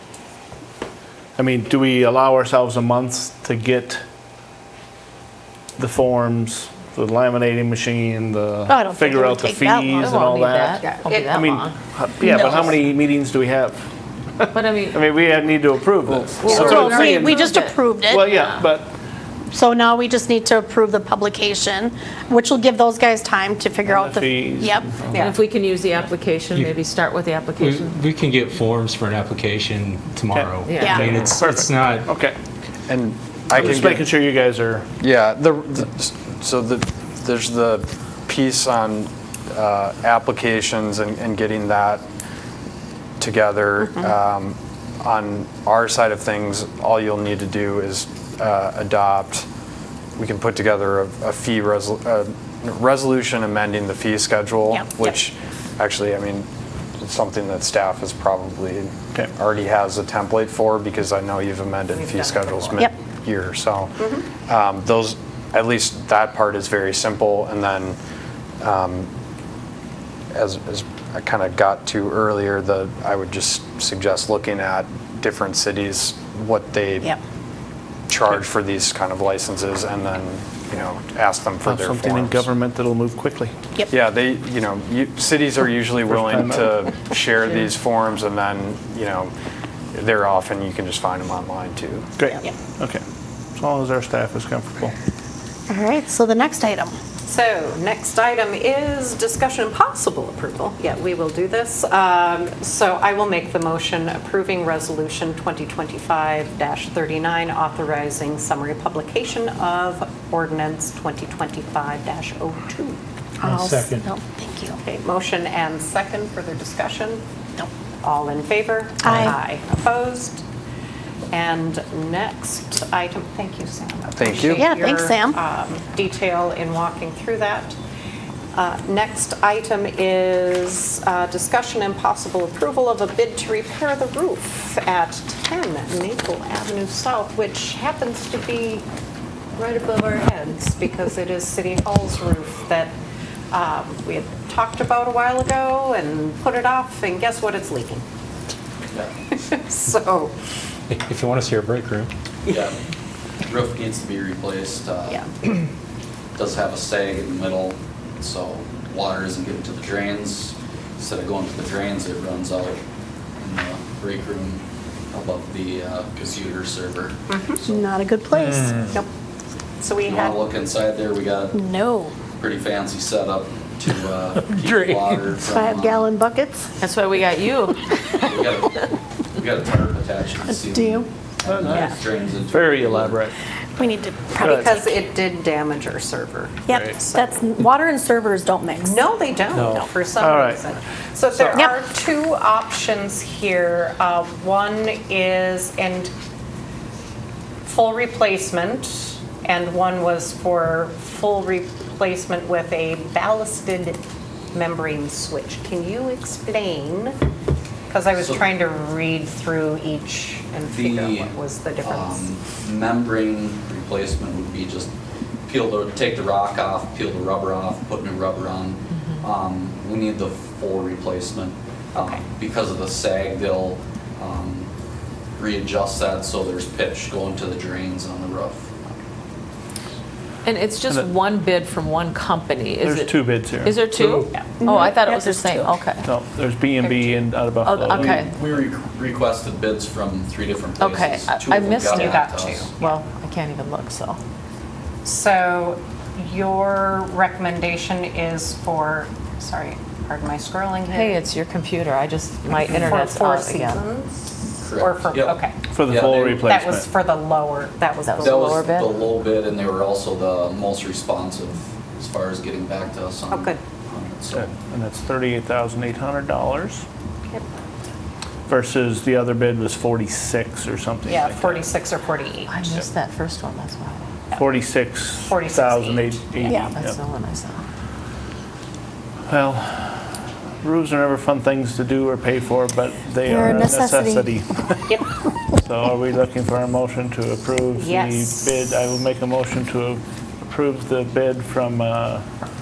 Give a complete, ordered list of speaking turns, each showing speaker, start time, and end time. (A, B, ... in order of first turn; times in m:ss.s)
0:01.4-0:04.0 A
0:05.8-0:17.4 A
0:08.7-0:10.2 B
0:10.0-0:11.8 C
0:10.8-0:11.3 D
0:12.2-0:12.7 B
0:14.5-0:15.0 C
0:16.3-0:18.7 C
0:16.5-0:18.4 B
0:18.0-0:18.9 A
0:19.5-0:24.9 B
0:23.8-0:25.4 A
0:25.1-0:25.4 D
0:25.1-0:28.0 C
0:26.5-0:26.8 E
0:27.6-0:32.1 E
0:30.3-0:32.4 A
0:30.6-0:31.1 C
0:30.8-0:31.1 B
0:32.9-0:34.1 F
0:33.5-0:34.9 A
0:35.0-0:42.0 F
0:43.2-0:49.5 F
0:50.2-0:56.5 F
0:57.0-1:08.0 F
1:01.9-1:02.8 D
1:04.0-1:04.3 D
1:08.6-1:09.1 F
1:10.3-1:17.2 F
1:18.1-1:22.5 F
1:21.6-1:23.6 A
1:23.9-1:29.3 F
1:26.0-1:26.9 A
1:29.9-1:32.1 F
1:32.2-1:33.0 A
1:33.6-1:34.9 A
1:35.7-1:37.0 B
1:37.3-1:53.0 D
1:53.4-1:54.8 B
1:53.4-1:54.0 E
1:54.8-1:57.2 D
1:58.0-2:00.4 D
1:59.0-1:59.3 B
2:01.3-2:07.8 D
2:04.1-2:04.7 F
2:04.6-2:05.4 B
2:08.6-2:18.9 D
2:19.6-2:22.9 D
2:23.5-2:28.0 D
2:29.3-2:30.3 D
2:30.9-2:32.1 E
2:32.5-2:32.8 G
2:33.5-2:35.3 G
2:36.4-2:42.8 G
2:43.4-2:47.8 G
2:47.3-2:47.6 D
2:47.7-2:48.7 B
2:48.4-2:48.9 E
2:49.8-2:50.4 D
2:50.0-2:51.6 G
2:51.5-2:52.1 B
2:52.4-2:56.1 G
2:54.5-2:55.4 E
2:55.5-2:56.7 B
2:56.8-2:58.9 C
2:58.3-3:03.2 G
3:00.5-3:01.1 B
3:01.5-3:03.3 A
3:01.7-3:02.0 D
3:03.8-3:05.0 B
3:04.4-3:07.4 D
3:04.4-3:04.8 A
3:06.7-3:09.0 B
3:08.8-3:16.1 D
3:09.6-3:09.9 B
3:10.2-3:10.6 A
3:17.6-3:24.0 D
3:24.5-3:27.2 D
3:27.9-3:32.2 D
3:30.7-3:34.9 G
3:35.5-3:44.7 G
3:42.0-3:42.2 D
3:45.4-3:48.7 G
3:50.4-3:56.0 C
3:52.8-3:53.8 A
3:53.9-3:54.5 E
3:54.6-3:55.9 B
3:56.0-3:58.2 A
3:57.6-3:58.3 C
3:57.9-4:02.7 G
4:00.8-4:02.3 C
4:01.9-4:03.0 D
4:02.8-4:04.2 C
4:05.0-4:11.2 D
4:10.9-4:13.8 C
4:12.6-4:15.6 D
4:14.6-4:16.5 G
4:15.7-4:16.9 A
4:16.3-4:18.6 D
4:18.0-4:19.0 C
4:18.2-4:24.5 G
4:23.3-4:23.6 D
4:24.3-4:26.8 A
4:28.5-4:31.7 A
4:31.1-4:32.7 D
4:32.5-4:34.0 C
4:34.4-4:37.0 A
4:35.2-4:36.4 D
4:36.4-4:37.6 C
4:36.5-4:36.7 B
4:39.3-4:40.1 A
4:40.6-4:45.0 A
4:43.2-4:44.3 B
4:45.5-4:52.2 A
4:47.7-4:48.6 D